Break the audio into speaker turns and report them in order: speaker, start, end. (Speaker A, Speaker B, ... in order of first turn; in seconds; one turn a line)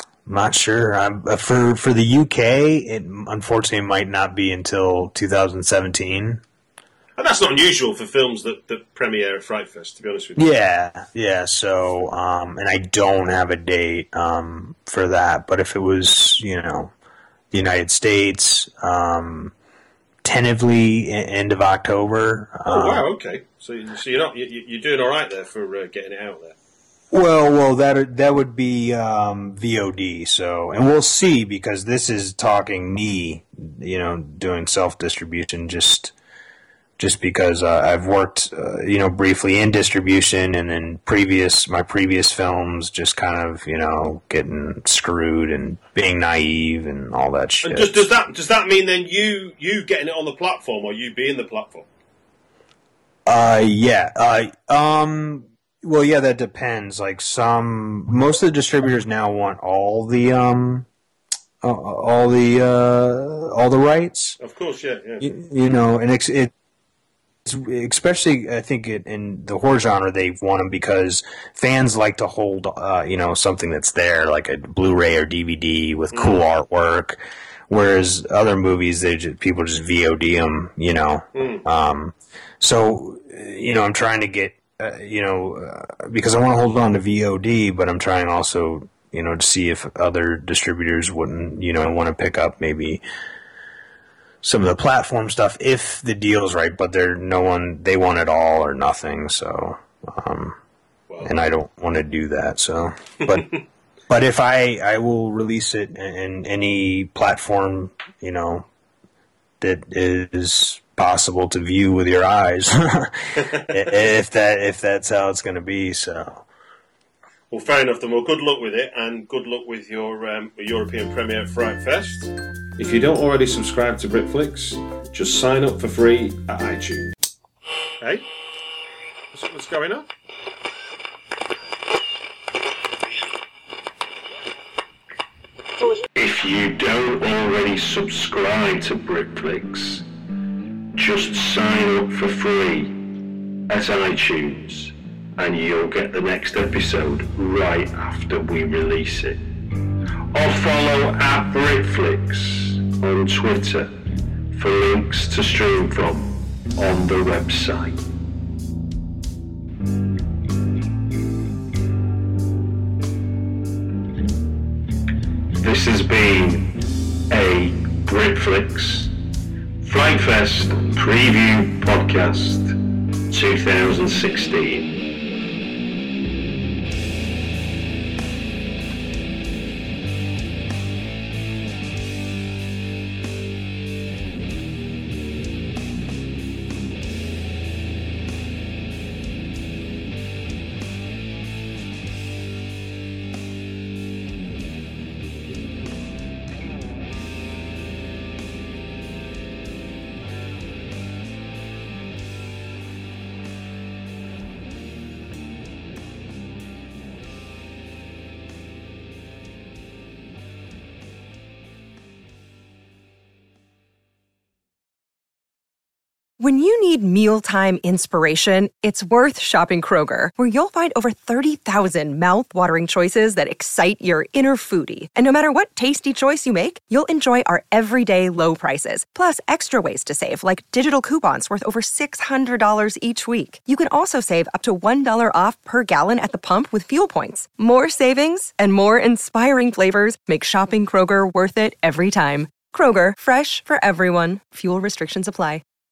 Speaker A: 0.2-6.4
Speaker B: 7.2-10.5
Speaker A: 10.3-16.9
Speaker A: 17.5-19.5
Speaker A: 20.2-23.0
Speaker B: 22.7-26.5
Speaker A: 27.1-36.1
Speaker A: 37.0-48.0
Speaker B: 47.6-51.9
Speaker A: 53.2-60.9
Speaker A: 61.6-64.4
Speaker B: 64.4-65.3
Speaker A: 65.2-66.5
Speaker A: 67.4-93.0
Speaker B: 76.1-76.4
Speaker B: 81.3-81.6
Speaker A: 94.4-100.6
Speaker B: 101.1-101.3
Speaker A: 101.2-103.5
Speaker B: 103.3-103.6
Speaker A: 104.1-108.7
Speaker A: 109.6-116.4
Speaker B: 113.4-113.7
Speaker B: 117.5-127.1
Speaker B: 128.0-128.3
Speaker B: 129.3-130.1
Speaker C: 136.1-140.0
Speaker C: 140.9-143.0
Speaker C: 143.7-149.5
Speaker C: 150.3-153.9
Speaker C: 154.5-158.0
Speaker C: 165.6-169.1
Speaker C: 169.8-172.8
Speaker C: 173.3-175.0
Speaker D: 216.4-245.6